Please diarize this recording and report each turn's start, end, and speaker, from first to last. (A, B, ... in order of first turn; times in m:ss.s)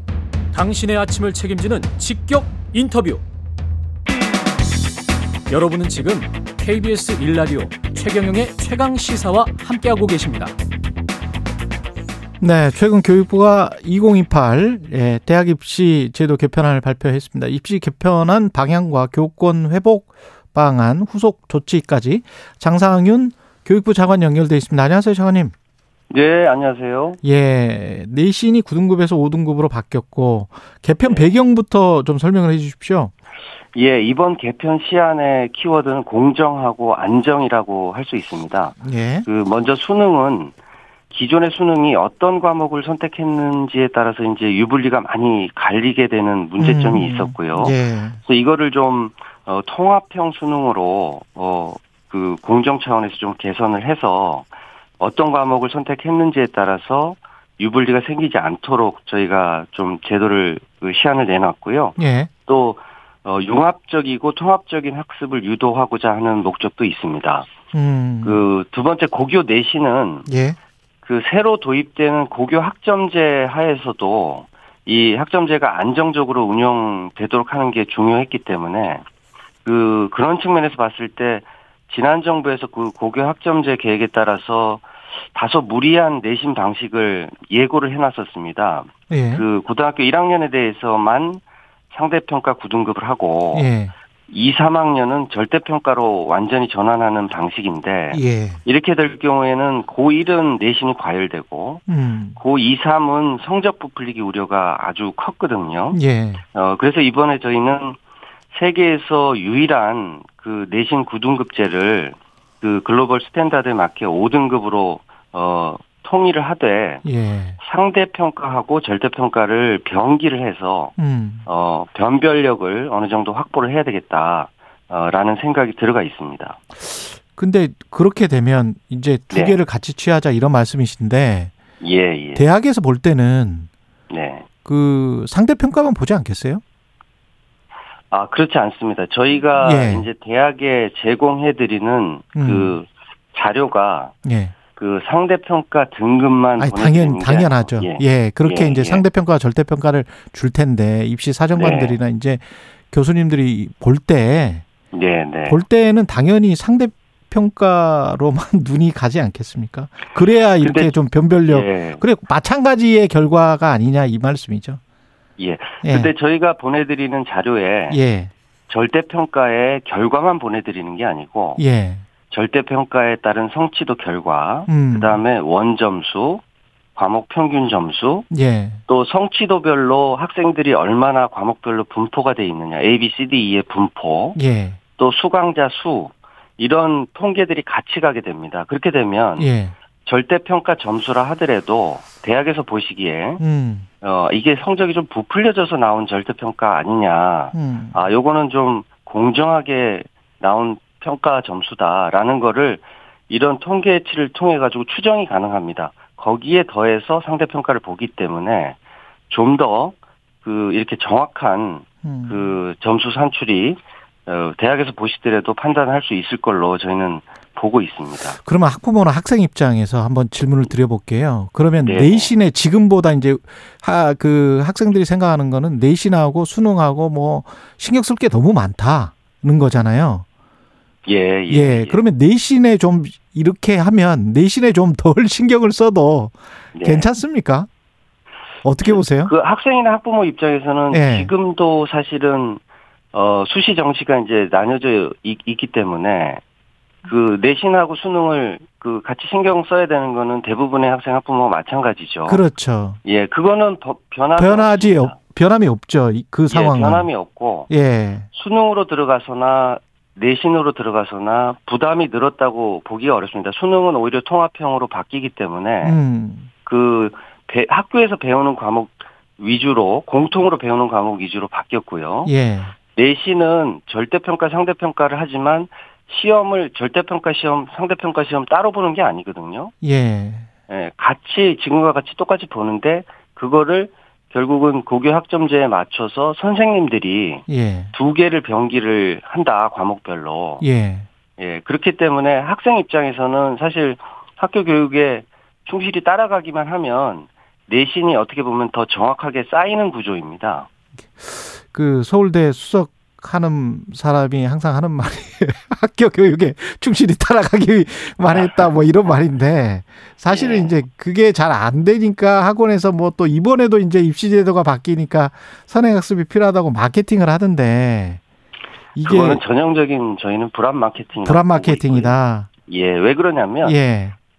0:00.5-0:03.2 A
0:05.5-0:10.5 A
0:12.4-0:25.5 B
0:26.1-0:27.2 C
0:27.2-0:33.1 B
0:31.0-0:31.3 C
0:33.7-0:40.5 C
0:38.8-0:39.2 B
0:41.1-0:54.5 C
0:46.6-0:48.2 B
0:55.0-1:07.5 C
1:02.0-1:02.3 B
1:07.7-1:08.4 B
1:08.2-1:10.3 C
1:10.3-1:10.6 B
1:11.0-1:19.0 C
1:19.6-1:33.7 C
1:29.1-1:29.4 B
1:33.5-1:33.9 B
1:34.3-1:41.8 C
1:38.1-1:38.6 B
1:41.9-1:42.4 B
1:42.4-1:46.0 C
1:45.9-1:46.4 B
1:46.5-1:48.0 C
1:48.5-1:57.0 C
1:57.0-1:57.6 B
1:57.6-2:06.6 C
2:01.0-2:01.4 B
2:06.8-2:11.5 B
2:09.3-2:09.6 C
2:11.8-2:12.4 C
2:12.3-2:13.7 B
2:14.1-2:14.4 C
2:14.6-2:16.6 B
2:18.1-2:24.1 C
2:19.6-2:20.1 B
2:22.4-2:22.7 B
2:24.2-2:24.5 B
2:24.7-2:29.0 C
2:26.6-2:34.6 B
2:31.5-2:32.0 C
2:34.9-2:35.6 C
2:35.5-2:44.8 B
2:40.6-2:42.0 C
2:45.4-2:48.0 C
2:45.8-2:46.1 B
2:47.9-2:48.3 B
2:48.7-2:51.6 C
2:51.6-2:52.0 B
2:52.3-2:56.4 C
2:54.7-2:55.2 B
2:56.9-2:58.3 C
2:58.3-2:58.8 B
2:58.9-3:04.4 C
3:04.3-3:04.8 B
3:05.0-3:09.5 C
3:09.4-3:09.7 B
3:10.0-3:13.4 C
3:13.4-3:13.9 B
3:14.0-3:28.8 C
3:17.5-3:18.0 B
3:29.3-3:38.4 C
3:32.0-3:32.5 B
3:38.4-3:50.2 B
3:41.8-3:42.3 C
3:51.0-3:52.0 C
3:51.5-3:57.7 B
3:56.7-3:57.1 C
3:58.6-3:59.3 B
3:58.8-4:02.6 C
4:00.9-4:01.3 B
4:03.1-4:06.4 C
4:07.0-4:12.4 C
4:12.3-4:13.0 B
4:13.0-4:15.2 C
4:14.4-4:17.1 B
4:16.5-4:17.7 C
4:17.7-4:18.3 B
4:18.3-4:26.0 C
4:25.8-4:26.5 B
4:26.6-4:32.3 C
4:32.2-4:32.7 B
4:32.9-4:39.7 C
4:39.8-4:40.5 B
4:40.7-4:50.6 C
4:47.5-4:47.9 B
4:50.6-4:51.1 B
4:51.4-5:00.7 C
5:01.2-5:18.2 B
5:08.3-5:08.9 C
5:10.3-5:10.8 C
5:18.9-5:19.4 B
5:19.0-5:23.8 C
5:21.2-5:22.5 B
5:23.6-5:24.2 B